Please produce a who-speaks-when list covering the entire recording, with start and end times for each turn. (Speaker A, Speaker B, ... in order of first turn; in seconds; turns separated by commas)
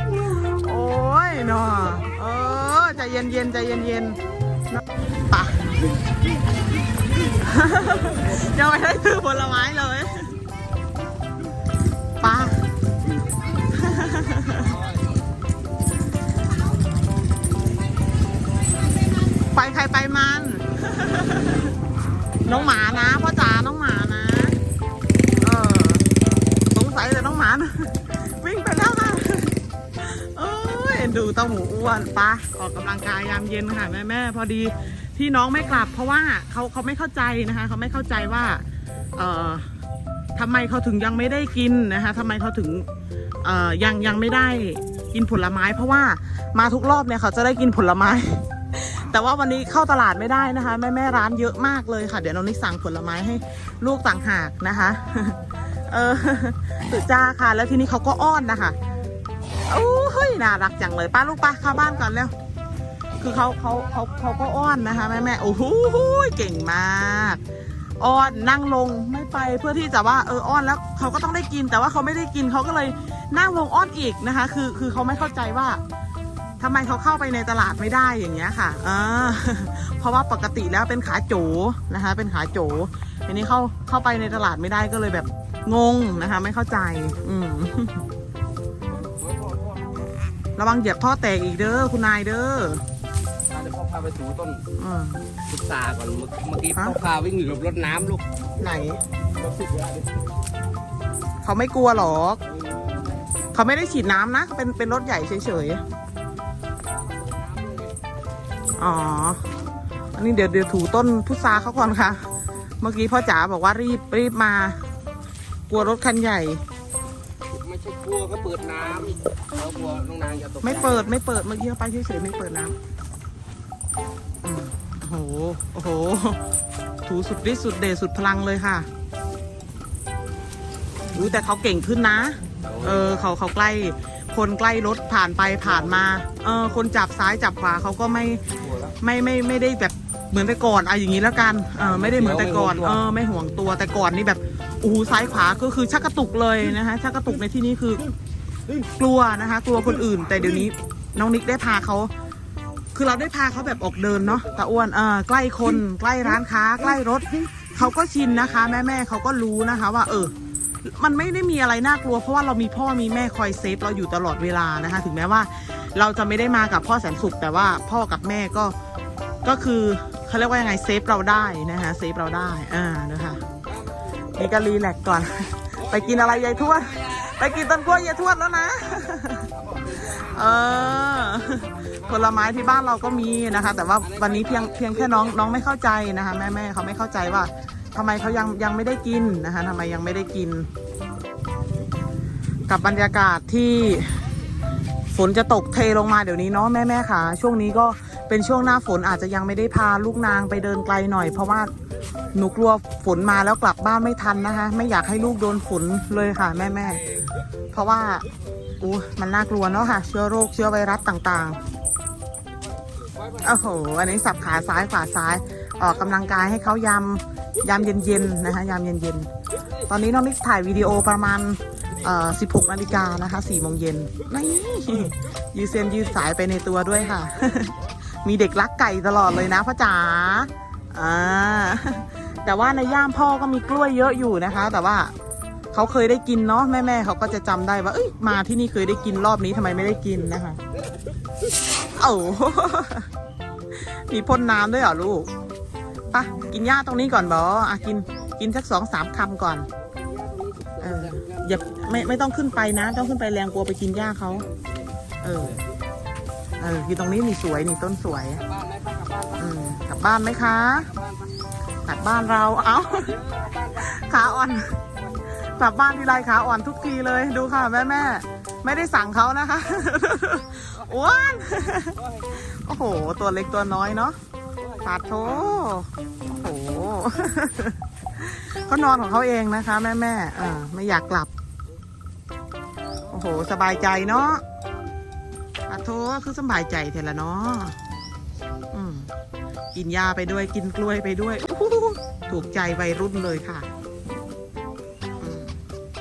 Speaker A: 0.4-4.2, Speaker A: 5.3-5.7, Speaker A: 7.4-10.4, Speaker A: 12.2-12.6, Speaker A: 13.7-14.8, Speaker A: 19.4-21.7, Speaker A: 22.4-24.6, Speaker A: 25.4-26.1, Speaker A: 26.7-38.6, Speaker A: 39.2-39.7, Speaker A: 40.4-42.9, Speaker A: 43.4-58.8, Speaker A: 59.7-62.3, Speaker A: 63.2-67.4, Speaker A: 68.0-75.8, Speaker A: 76.6-88.0, Speaker B: 89.2-90.0, Speaker A: 90.6-92.8, Speaker B: 93.5-94.7, Speaker A: 94.8-95.3, Speaker B: 95.5-98.2, Speaker A: 96.7-97.0, Speaker A: 98.6-99.0, Speaker A: 101.4-102.4, Speaker A: 103.5-105.8, Speaker B: 107.0-108.0, Speaker A: 108.8-109.4, Speaker A: 110.2-112.2, Speaker A: 112.8-114.8, Speaker A: 115.7-116.6, Speaker B: 117.6-120.6, Speaker A: 120.6-122.8, Speaker A: 124.4-126.4, Speaker A: 127.1-128.9, Speaker A: 131.1-148.1, Speaker B: 142.1-142.7, Speaker A: 149.0-152.1, Speaker A: 152.9-168.7, Speaker A: 169.4-173.4, Speaker A: 174.3-190.7, Speaker B: 179.7-180.2, Speaker A: 192.7-194.3, Speaker A: 195.1-201.7, Speaker A: 202.3-207.1, Speaker A: 207.7-208.3, Speaker A: 208.8-211.6, Speaker A: 213.4-219.3, Speaker A: 219.9-235.1, Speaker A: 235.7-240.6, Speaker A: 241.9-243.1, Speaker A: 243.7-245.3, Speaker A: 246.1-249.7, Speaker B: 250.0-251.4, Speaker A: 250.8-254.5, Speaker A: 255.2-255.6, Speaker A: 256.6-258.4, Speaker B: 258.5-259.4, Speaker A: 259.4-260.9, Speaker A: 261.9-264.8, Speaker B: 263.3-263.6, Speaker A: 265.3-274.2, Speaker A: 274.7-281.3, Speaker A: 283.1-284.4, Speaker A: 285.7-287.8, Speaker A: 288.7-289.1, Speaker A: 289.7-293.7, Speaker A: 295.2-295.6